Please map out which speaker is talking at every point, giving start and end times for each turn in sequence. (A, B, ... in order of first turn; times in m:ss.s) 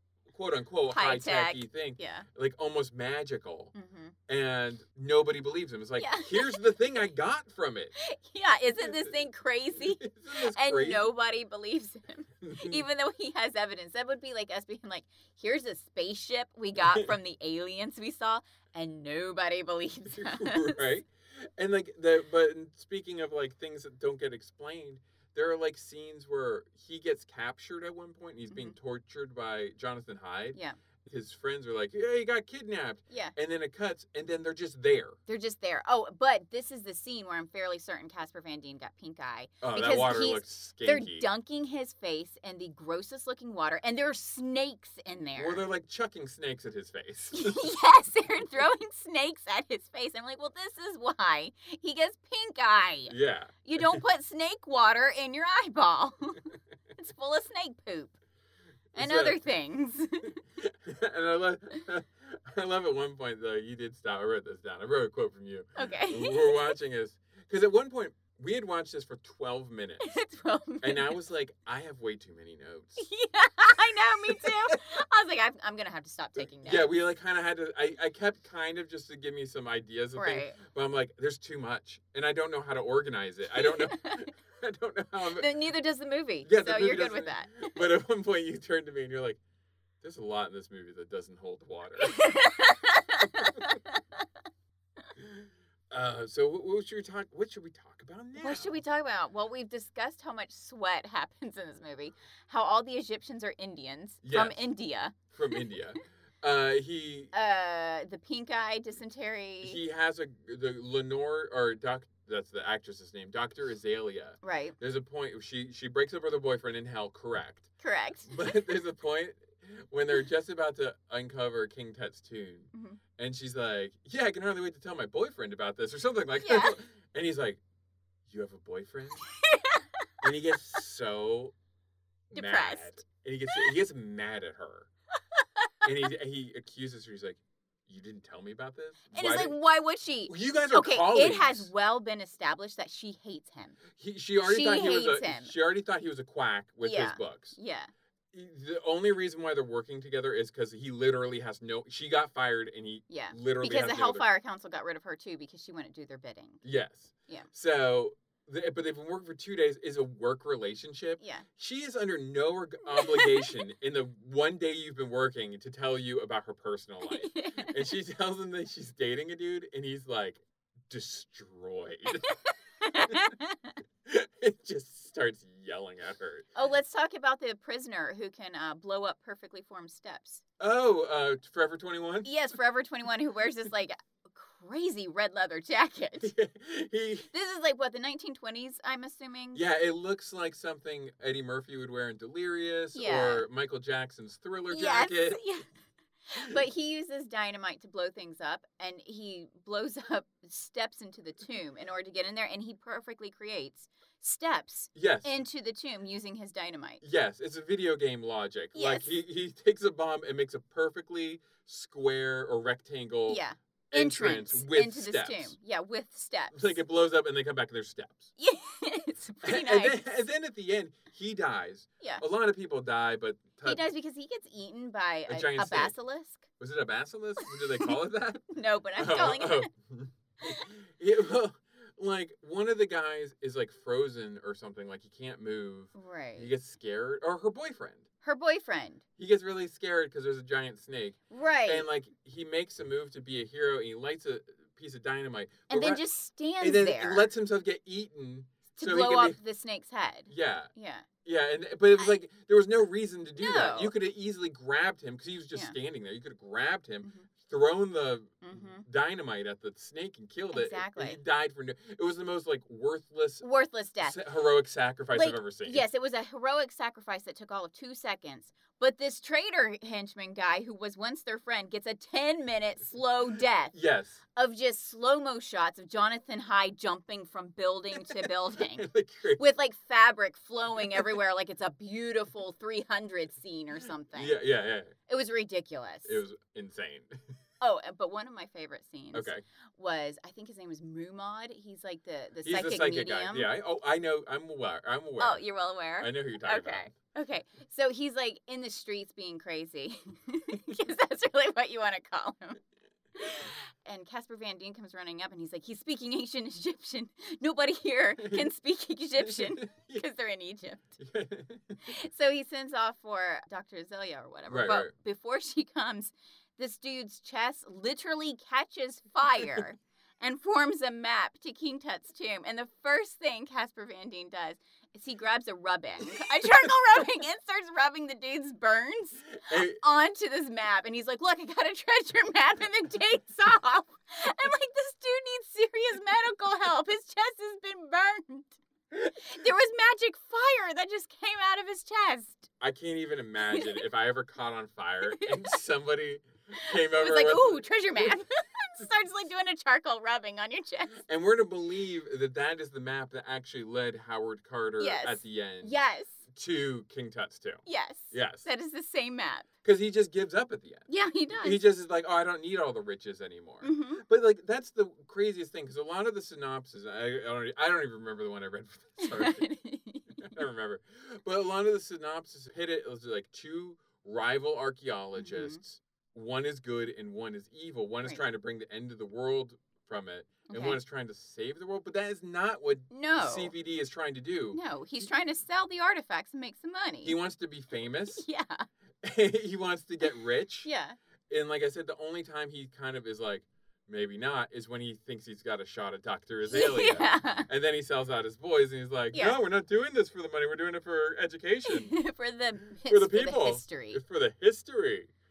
0:00.3-0:03.7 A
0:00.9-0:02.2 B
0:03.7-0:04.1 B
0:04.3-0:07.9 A
0:06.0-0:06.6 B
0:08.0-0:21.0 B
0:08.8-0:09.1 A
0:09.8-0:11.0 A
0:12.4-0:12.8 A
0:16.8-0:17.1 A
0:20.1-0:35.2 A
0:28.5-0:28.8 B
0:35.3-0:45.6 B
0:39.6-0:41.3 A
0:45.4-0:47.8 A
0:47.3-0:58.2 B
0:53.1-0:54.0 A
0:58.9-0:59.4 A
0:58.9-1:00.4 B
1:00.6-1:10.1 A
1:05.8-1:06.8 B
1:10.0-1:11.2 B
1:10.8-1:13.0 A
1:13.0-1:16.9 B
1:14.3-1:14.8 A
1:16.6-1:25.5 A
1:20.2-1:20.6 B
1:23.5-1:24.3 B
1:25.3-1:27.8 B
1:26.4-1:29.4 A
1:30.0-1:32.4 A
1:32.0-1:34.2 B
1:35.2-1:38.8 A
1:38.4-1:45.8 B
1:44.2-1:44.6 A
1:45.3-1:47.3 A
1:47.3-1:49.8 B
1:49.6-1:57.7 A
1:54.4-1:54.8 B
1:57.8-1:58.4 B
1:58.2-2:07.6 A
2:02.7-2:03.0 B
2:06.4-2:06.8 B
2:08.3-2:09.3 A
2:09.3-2:10.2 B
2:10.2-2:11.5 A
2:12.3-2:14.9 A
2:12.3-2:13.7 B
2:15.3-2:15.7 B
2:15.8-2:19.6 A
2:19.1-2:23.8 B
2:20.3-2:21.7 A
2:24.0-2:27.5 A
2:24.4-2:25.5 B
2:26.8-2:27.9 B
2:28.3-2:34.2 A
2:33.1-2:36.6 B
2:36.6-2:52.2 A
2:41.2-2:41.4 B
2:42.9-2:43.6 B
2:47.1-2:47.9 B
2:52.2-2:53.8 B
2:54.0-2:56.5 A
2:56.5-3:00.4 B
3:00.6-3:02.3 A
3:02.2-3:06.3 B
3:06.2-3:07.3 A
3:07.3-3:09.6 B
3:09.5-3:15.4 A
3:12.9-3:13.4 B
3:14.7-3:15.7 B
3:16.3-3:27.0 B
3:24.9-3:25.4 A
3:27.0-3:35.5 A
3:28.7-3:29.1 B
3:33.3-3:36.8 B
3:36.5-3:38.3 A
3:38.4-3:40.0 B
3:39.4-3:43.8 A
3:43.6-3:46.5 B
3:45.3-3:45.9 A
3:46.6-3:58.0 A
3:47.4-3:48.0 B
3:48.5-3:49.7 B
3:50.4-3:50.7 B
3:55.9-3:56.5 B
3:58.2-3:59.0 B
3:59.2-4:06.0 A
4:01.3-4:01.9 B
4:05.7-4:07.3 B
4:06.6-4:09.4 A
4:08.8-4:11.1 B
4:10.3-4:10.7 A
4:11.2-4:23.4 A
4:13.4-4:13.9 B
4:17.0-4:17.3 B
4:18.4-4:18.8 B
4:20.5-4:21.2 B
4:23.4-4:24.2 B
4:24.0-4:25.8 A
4:25.1-4:33.7 B
4:33.7-4:34.2 A
4:34.3-4:44.4 B
4:37.9-4:39.4 A
4:44.1-4:44.9 A
4:45.1-4:46.2 B
4:46.0-4:47.2 A
4:47.6-4:53.5 B
4:49.1-4:49.4 A
4:52.4-4:55.4 A
4:55.2-5:02.6 B
4:56.0-4:56.9 A
5:03.2-5:10.9 B
5:08.2-5:08.5 A
5:09.2-5:10.0 A
5:11.0-5:11.8 A
5:11.8-5:38.6 B
5:14.5-5:14.9 A
5:29.4-5:29.8 A
5:39.1-5:42.5 B
5:42.6-5:48.2 A
5:43.4-5:43.8 B
5:45.1-5:45.6 B
5:46.5-5:51.0 B
5:51.0-5:55.8 A
5:54.8-5:56.2 B
5:56.3-5:58.4 A
5:57.6-5:59.4 B
5:59.6-6:09.4 A
6:00.9-6:01.6 B
6:03.6-6:04.0 B
6:09.0-6:10.4 B
6:10.2-6:25.0 A
6:15.2-6:15.6 B
6:20.5-6:20.8 B
6:22.9-6:23.5 B
6:24.5-6:27.2 B
6:27.0-6:28.2 A
6:28.1-6:28.6 B
6:29.0-6:30.7 A
6:30.6-6:31.0 B
6:31.3-6:42.0 A
6:36.5-6:37.5 B
6:39.1-6:39.4 B
6:41.6-6:44.0 B
6:42.8-6:45.1 A